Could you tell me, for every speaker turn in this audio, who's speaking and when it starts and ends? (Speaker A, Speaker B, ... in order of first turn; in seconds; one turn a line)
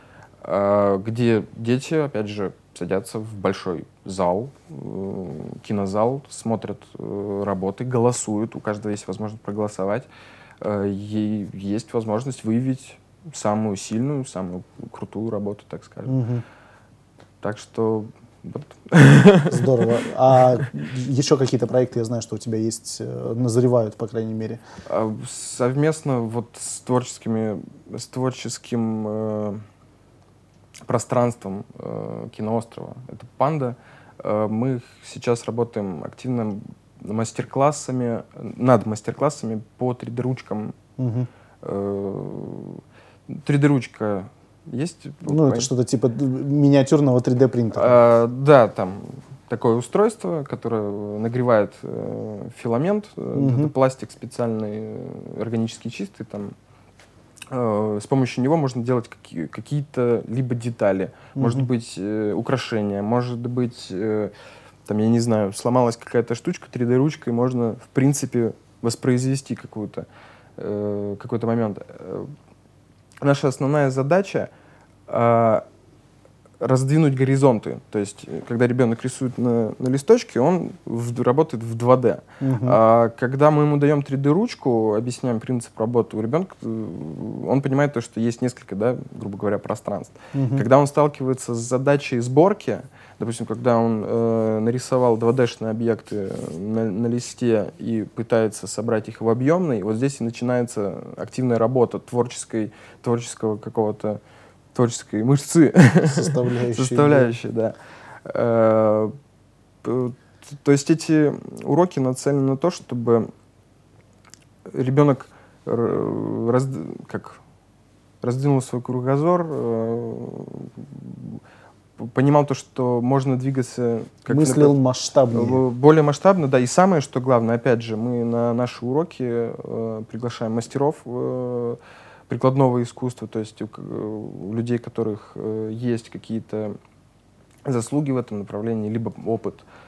Speaker A: 0.4-10.1
Speaker A: 10.6-16.2
Speaker B: 16.1-16.4
Speaker A: 17.4-20.0
Speaker B: 19.5-24.6
Speaker A: 24.9-29.6
Speaker A: 30.9-40.8
Speaker B: 41.0-41.3
Speaker A: 41.6-45.7
Speaker B: 45.2-47.9
Speaker A: 47.7-56.5
Speaker B: 53.3-53.7
Speaker A: 57.5-64.3
Speaker B: 61.4-61.7
Speaker A: 64.8-70.0
Speaker A: 70.6-72.3
Speaker A: 73.2-74.5
Speaker A: 75.1-75.6
Speaker A: 76.6-104.2
Speaker B: 82.4-82.8
Speaker B: 90.3-90.6
Speaker A: 104.7-107.7
Speaker B: 106.1-107.3
Speaker A: 108.2-109.1
Speaker A: 109.8-113.3
Speaker A: 114.7-117.4
Speaker A: 118.2-121.4
Speaker A: 122.0-124.8
Speaker B: 124.3-125.6
Speaker A: 125.3-136.7
Speaker A: 137.6-139.6